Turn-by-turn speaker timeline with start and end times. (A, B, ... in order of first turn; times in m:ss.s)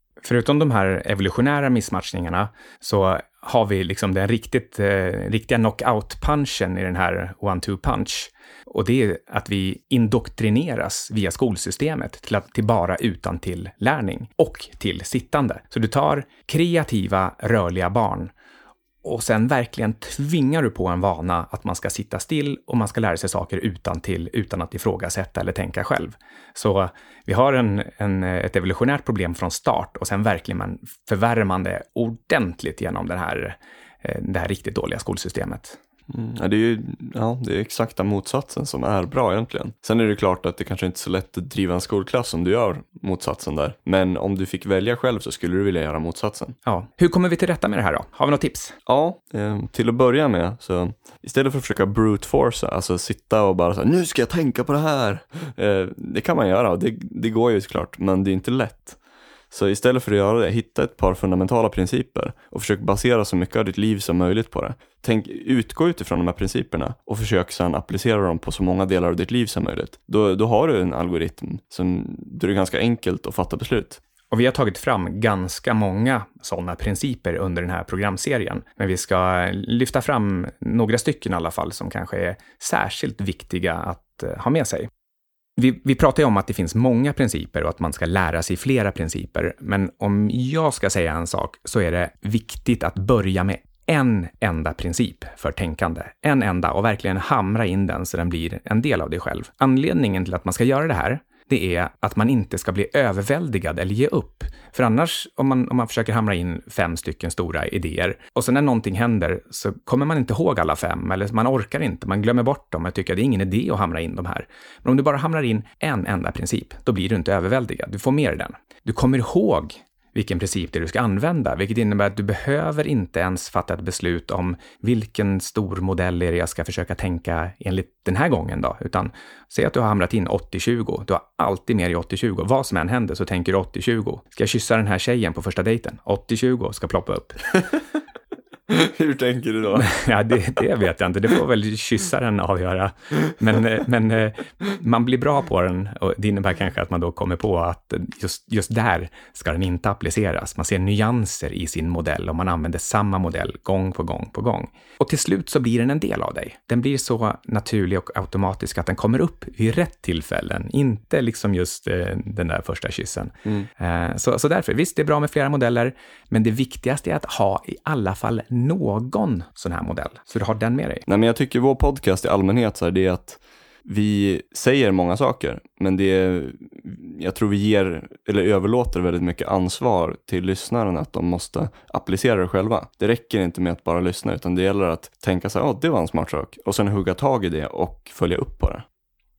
0:00.2-0:18.3 A
0:19.0-0:35.8 A
0:36.1-0:46.6 B
0:46.6-0:48.8 A
0:48.8-0:59.0 B
0:59.5-1:14.0 B
1:14.3-1:24.9 A
1:25.6-2:17.6 A
2:18.7-2:20.4 B
2:19.8-2:51.0 A
2:51.1-3:08.8 B